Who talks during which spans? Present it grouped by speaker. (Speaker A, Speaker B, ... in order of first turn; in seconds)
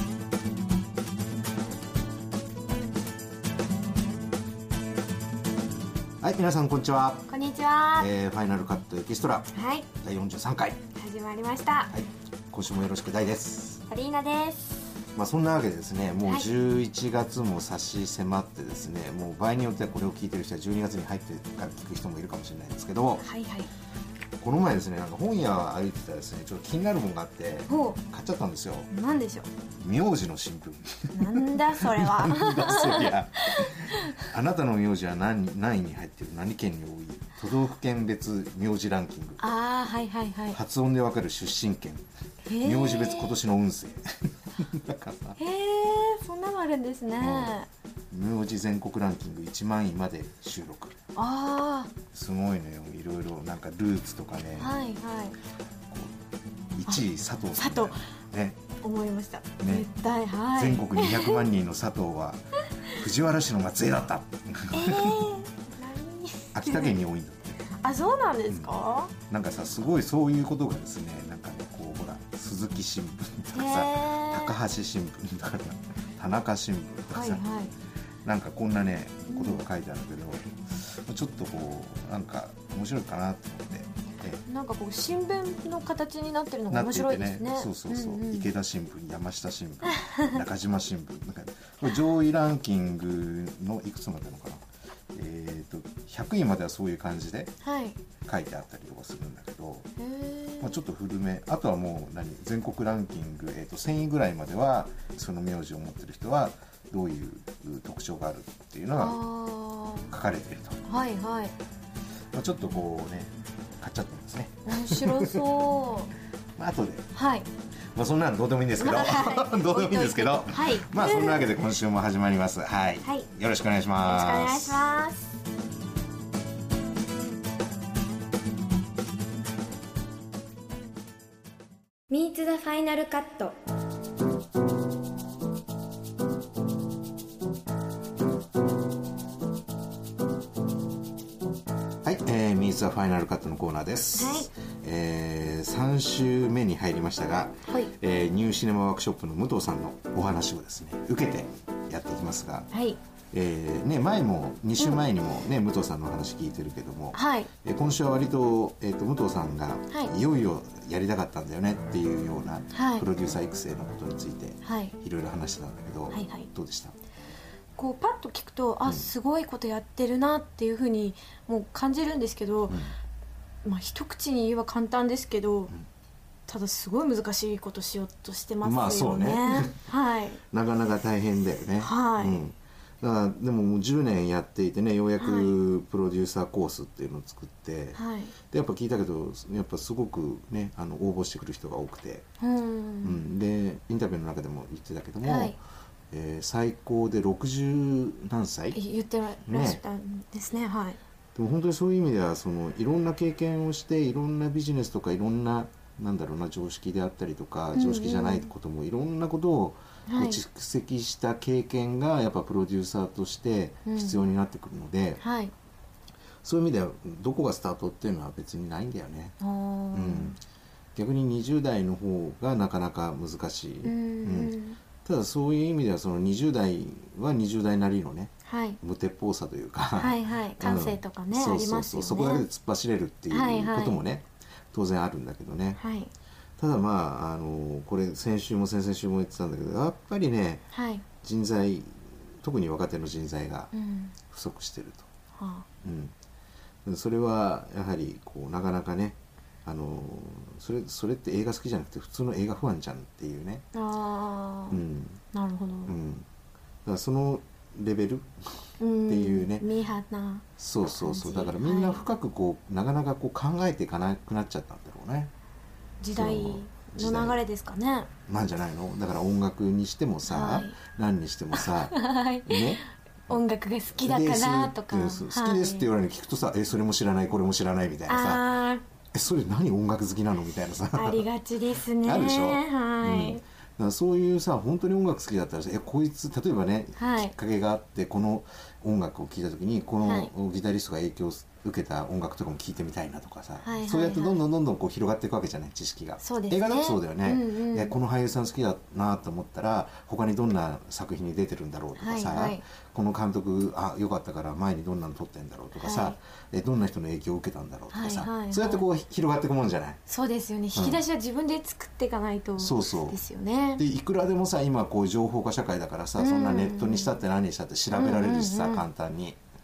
Speaker A: 6.2-7.3, 8.0-10.8, 11.9-13.8, 15.1-23.2, 24.4-28.9, 29.8-39.5, 40.5-42.0, 42.6-45.4, 47.2-47.6, 48.1-51.0, 52.1-54.7, 55.9-56.1, 56.7-58.6, 59.6-59.9, 60.5-65.2, 66.5-67.6, 69.3-77.4, 78.2-84.4, 86.7-97.5, 98.2-99.9, 100.6-109.2, 110.1-111.0, 112.3-115.5, 116.5-117.1, 117.9-124.9, 142.0-152.7, 153.3-166.9, 172.7-172.9, 178.6-179.7, 180.5-188.0, 188.5-192.2, 193.0-195.6, 196.1-198.8, 199.4-199.8, 201.3-215.2, 216.4-219.3, 219.9-220.4, 220.9-235.8, 236.6-240.6, 241.2-243.7, 244.3-245.1, 245.8-246.1, 246.8-253.6, 254.7-255.2, 255.8-256.3, 256.8-259.6, 260.6-265.3, 266.1-267.4, 268.3-273.4, 273.9-278.4, 279.1-281.2, 282.0-310.0, 310.7-311.0, 312.6-313.2, 313.8-319.4
Speaker B: 7.3-8.1, 9.5-9.9, 10.9-11.9, 13.9-14.9, 23.2-23.7, 27.7-28.0, 28.9-29.5, 31.1-34.3, 39.4-40.6, 42.5-43.4, 45.4-47.7, 51.1-51.9, 54.6-55.4, 57.6-58.0, 58.8-61.4, 64.7-67.0, 67.8-69.1, 73.5-74.5, 77.1-77.7, 79.3-79.6, 84.4-88.5, 89.9-90.3, 97.6-98.0, 100.0-100.8, 109.0-110.1, 110.8-111.5, 114.7-116.1, 117.1-117.5, 118.8-121.5, 124.0-125.3, 132.1-133.5, 144.2-144.5, 147.7-147.9, 152.7-153.0, 154.8-155.1, 157.1-157.5, 162.7-163.1, 164.6-164.9, 166.1-166.5, 167.8-172.8, 173.6-175.7, 176.5-180.4, 181.8-182.4, 185.2-185.5, 187.9-188.3, 192.4-193.2, 195.2-195.6, 198.7-201.0, 207.7-208.5, 210.1-210.4, 213.8-214.2, 215.2-215.5, 219.4-220.3, 223.8-224.8, 228.4-228.8, 230.0-232.4, 233.3-234.0, 235.8-236.1, 240.7-241.0, 243.7-244.1, 245.4-245.7, 253.7-254.8, 255.3-255.9, 258.8-262.1, 266.0-268.1, 270.3-270.8, 271.6-275.9, 278.1-278.8, 280.9-283.4, 286.9-287.3, 290.0-290.3, 293.6-294.4, 296.2-297.9, 301.9-302.6, 305.8-306.1, 307.9-308.8, 310.1-313.8, 316.2-317.2, 317.9-318.8